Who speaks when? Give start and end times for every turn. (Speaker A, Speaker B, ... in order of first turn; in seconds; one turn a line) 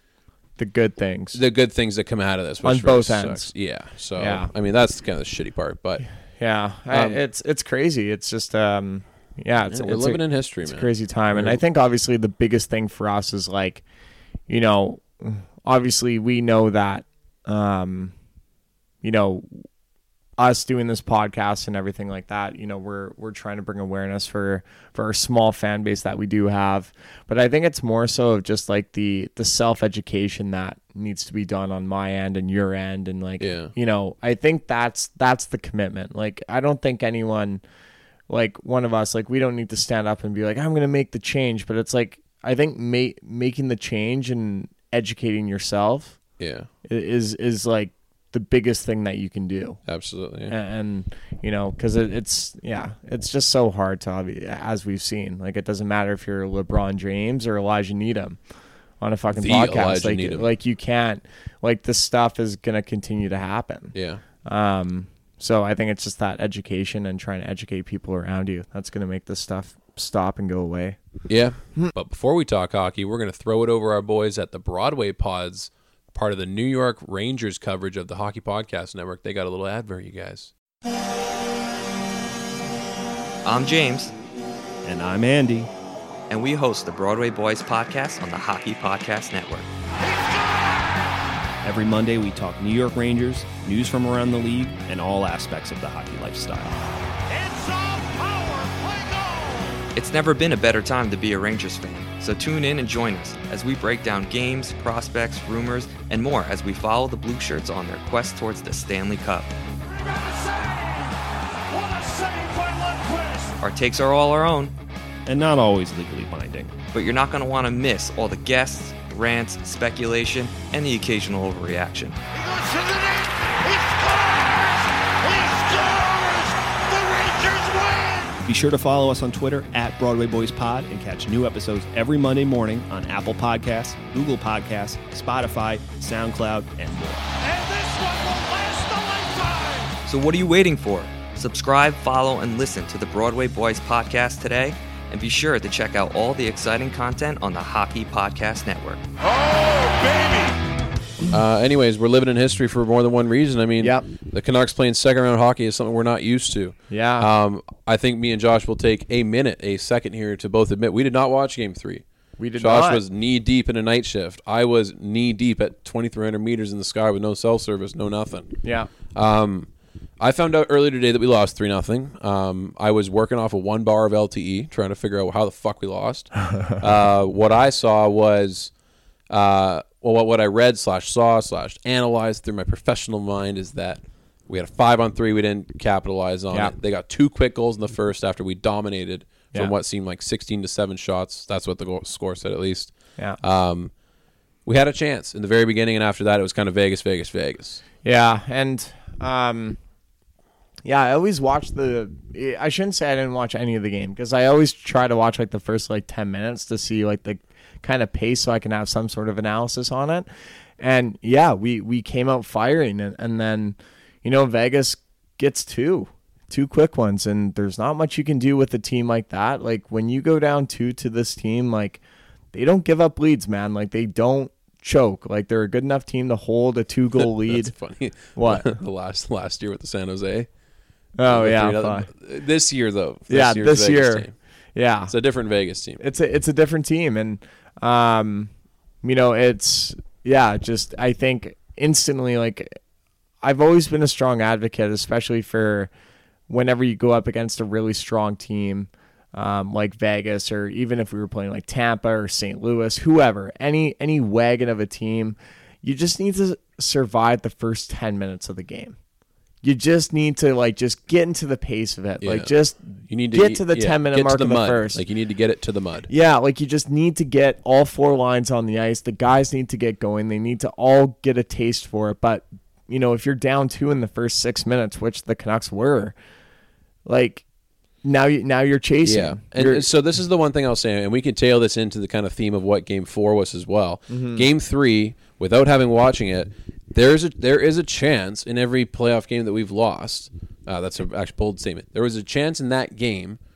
Speaker A: 0.6-1.4
Speaker B: 1.3-6.0
Speaker A: 2.6-3.5
Speaker A: 4.2-4.5
Speaker A: 6.3-13.8
Speaker B: 6.9-7.2
Speaker B: 9.7-11.6
Speaker A: 14.5-18.1
Speaker A: 19.0-19.6
Speaker A: 20.4-37.6
Speaker B: 33.4-33.7
Speaker A: 38.3-46.2
Speaker B: 46.4-46.7
Speaker A: 46.8-49.8
Speaker B: 49.9-50.5
Speaker A: 50.5-58.4
Speaker A: 59.0-71.0
Speaker B: 59.3-60.5
Speaker B: 63.9-64.2
Speaker B: 71.3-80.5
Speaker C: 83.4-84.1
Speaker D: 84.8-85.7
Speaker C: 86.3-89.7
Speaker E: 90.0-91.2
Speaker D: 91.6-96.8
Speaker E: 97.3-99.8
Speaker C: 99.9-109.5
Speaker E: 109.8-113.6
Speaker C: 113.6-114.7
Speaker D: 115.2-116.7
Speaker C: 116.9-122.2
Speaker E: 122.3-128.4
Speaker D: 128.4-137.2
Speaker E: 137.4-140.0
Speaker C: 140.1-149.0
Speaker E: 149.2-150.6
Speaker B: 151.3-162.0
Speaker A: 153.8-154.1
Speaker A: 156.9-157.3
Speaker A: 162.4-163.0
Speaker B: 162.6-169.7
Speaker A: 168.6-168.9
Speaker B: 170.2-178.7
Speaker B: 179.3-193.9
Speaker B: 194.6-197.8
Speaker A: 198.0-199.8
Speaker A: 200.8-210.3
Speaker A: 210.8-222.0
Speaker A: 222.5-227.7
Speaker B: 227.2-230.5
Speaker A: 228.3-228.8
Speaker A: 231.2-232.1
Speaker B: 231.3-234.3
Speaker A: 233.3-235.1
Speaker B: 235.1-236.0
Speaker A: 236.0-238.5
Speaker A: 239.0-242.8
Speaker A: 243.4-245.9
Speaker A: 246.5-259.0
Speaker A: 259.6-265.0
Speaker B: 262.2-262.5
Speaker B: 263.1-266.1
Speaker A: 266.1-276.1
Speaker A: 277.1-277.4
Speaker A: 278.0-279.9
Speaker B: 279.0-293.4
Speaker A: 284.1-284.5